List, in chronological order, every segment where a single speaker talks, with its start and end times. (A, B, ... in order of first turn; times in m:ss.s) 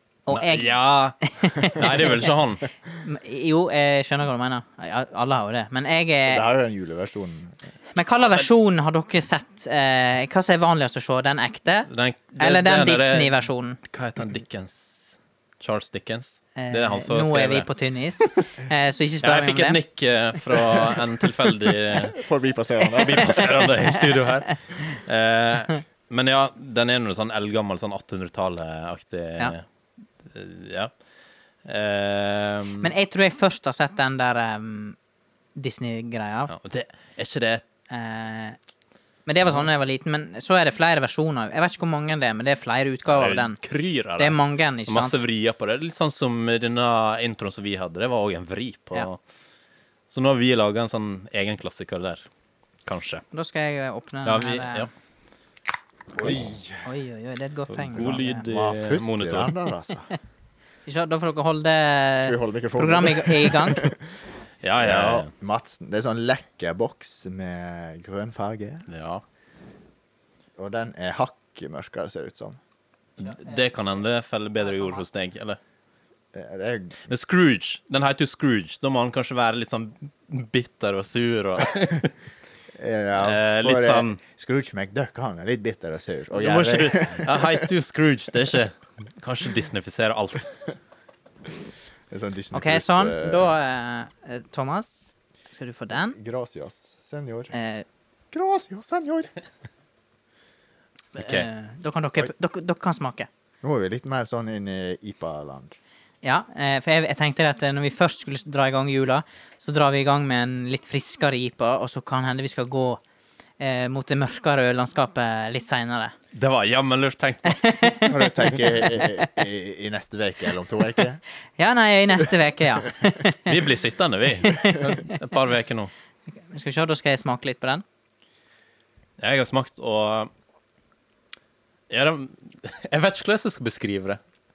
0:00.2-0:00.7 A
0:00.3-0:02.6 B
0:01.2-0:02.3 A
0:03.0-0:06.4 A
0:06.3-0:07.6 C
0:07.9-0:13.8 A
0:11.9-0:17.7 B
0:16.6-0:19.8 A
0:19.2-0:22.2 B
0:21.9-0:23.6 C
0:23.0-0:29.6 B
0:23.3-0:24.0 A
0:30.2-0:30.9 B
0:31.6-0:32.9 B
0:32.8-0:35.0 A
0:35.6-0:36.5 A
0:36.5-0:37.6 B
0:37.9-0:38.6 A
0:39.2-0:43.6 A
0:43.1-0:49.2 B
0:44.2-0:45.2 A
0:50.1-0:52.2 B
0:52.8-0:53.2 B
0:53.3-0:54.9 A
0:54.2-0:54.9 B
0:56.1-0:56.9 C
0:56.8-0:58.4 A
0:57.7-0:59.6 B
0:58.0-1:00.1 C
1:00.8-1:03.9 A
1:02.2-1:04.0 C
1:04.6-1:05.3 B
1:04.8-1:08.9 C
1:08.9-1:09.2 B
1:10.6-1:12.6 C
1:13.2-1:15.6 B
1:16.3-1:17.0 C
1:17.1-1:22.1 B
1:22.7-1:27.7 C
1:23.2-1:24.2 B
1:26.3-1:30.5 B
1:32.1-1:33.5 C
1:32.5-1:36.2 A
1:35.9-1:37.5 C
1:37.5-1:37.8 A
1:38.3-1:39.3 C
1:41.2-1:41.5 B
1:41.2-1:43.3 A
1:43.6-1:45.8 C
1:46.2-1:53.0 A
1:53.6-1:56.1 A
1:56.3-1:58.0 B
1:57.5-1:59.3 A
1:58.1-2:01.2 C
2:01.6-2:03.6 A
2:03.4-2:05.9 B
2:04.4-2:05.1 A
2:06.5-2:07.8 A
2:09.2-2:10.3 B
2:11.9-2:14.2 B